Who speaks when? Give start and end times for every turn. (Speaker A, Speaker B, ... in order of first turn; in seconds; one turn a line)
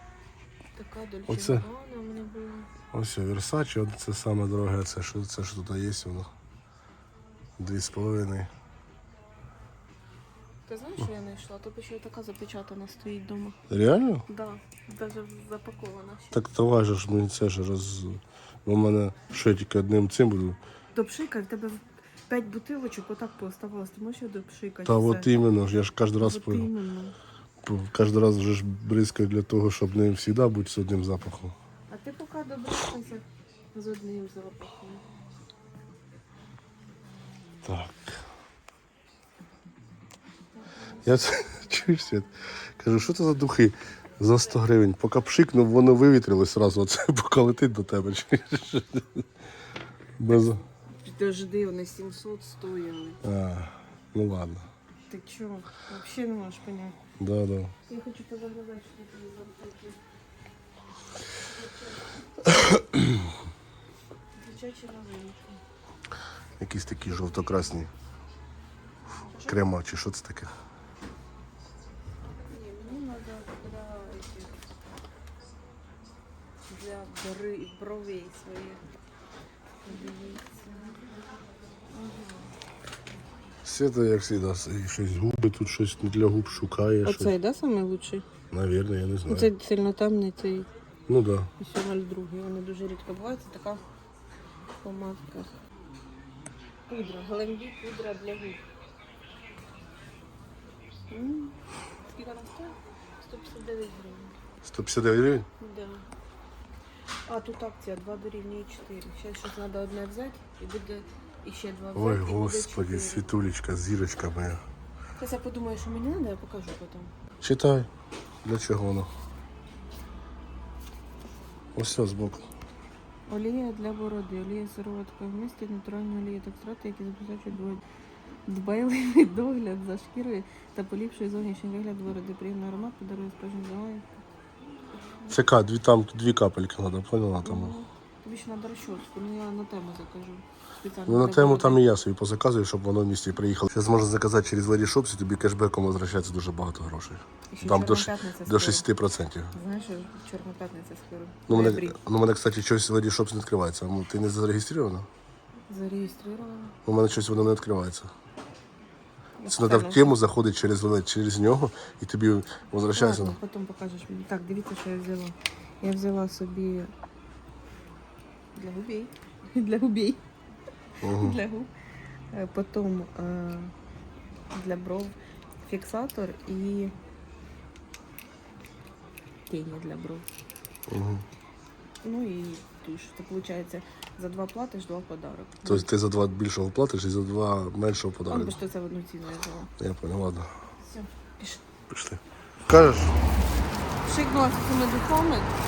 Speaker A: 0.8-2.7
Speaker B: 1.3-1.7
Speaker B: 2.9-6.3
Speaker B: 7.6-8.5
Speaker A: 10.7-13.6
Speaker B: 13.7-14.2
Speaker A: 14.3-16.4
Speaker B: 16.3-20.6
Speaker A: 20.9-25.3
Speaker B: 24.9-26.7
Speaker A: 26.2-27.1
Speaker B: 27.6-31.5
Speaker A: 31.9-35.0
Speaker B: 37.6-38.2
Speaker A: 40.7-41.0
Speaker B: 41.0-49.3
Speaker B: 50.2-50.6
Speaker A: 50.3-53.2
Speaker B: 53.2-54.7
Speaker A: 55.1-57.0
Speaker B: 57.2-57.7
Speaker A: 57.9-60.0
Speaker A: 61.4-62.1
Speaker B: 62.4-63.3
Speaker A: 64.4-65.6
Speaker B: 66.6-67.9
Speaker A: 69.3-69.6
Speaker B: 69.5-70.5
Speaker A: 72.5-74.6
Speaker A: 76.7-78.8
Speaker A: 79.8-80.9
Speaker A: 81.9-82.5
Speaker B: 83.7-87.3
Speaker A: 87.0-88.3
Speaker B: 88.5-89.5
Speaker A: 89.3-90.7
Speaker B: 91.1-91.5
Speaker A: 91.6-93.8
Speaker A: 94.8-95.5
Speaker A: 96.9-98.6
Speaker A: 101.1-101.5
Speaker A: 102.1-104.4
Speaker B: 104.6-105.5
Speaker A: 105.6-106.0
Speaker A: 107.3-113.3
Speaker B: 111.9-114.6
Speaker A: 115.2-117.1
Speaker B: 117.4-117.9
Speaker B: 118.4-119.1
Speaker B: 121.8-122.5
Speaker A: 123.3-127.8
Speaker A: 128.5-134.1
Speaker B: 135.3-137.8
Speaker A: 137.4-141.8
Speaker B: 141.1-149.5
Speaker A: 147.5-148.8
Speaker A: 149.5-152.0
Speaker B: 151.5-155.1
Speaker A: 155.7-156.8
Speaker B: 156.8-158.1
Speaker A: 159.4-160.2
Speaker B: 159.5-163.4
Speaker A: 162.9-166.9
Speaker A: 168.6-170.2
Speaker B: 171.0-171.4
Speaker A: 171.0-171.7
Speaker A: 172.3-173.7
Speaker A: 174.5-176.9
Speaker A: 179.5-180.3
Speaker B: 180.9-181.2
Speaker A: 182.0-185.9
Speaker B: 185.7-188.6
Speaker A: 188.3-189.7
Speaker B: 189.8-190.6
Speaker A: 190.8-191.6
Speaker B: 191.9-193.2
Speaker A: 194.0-195.5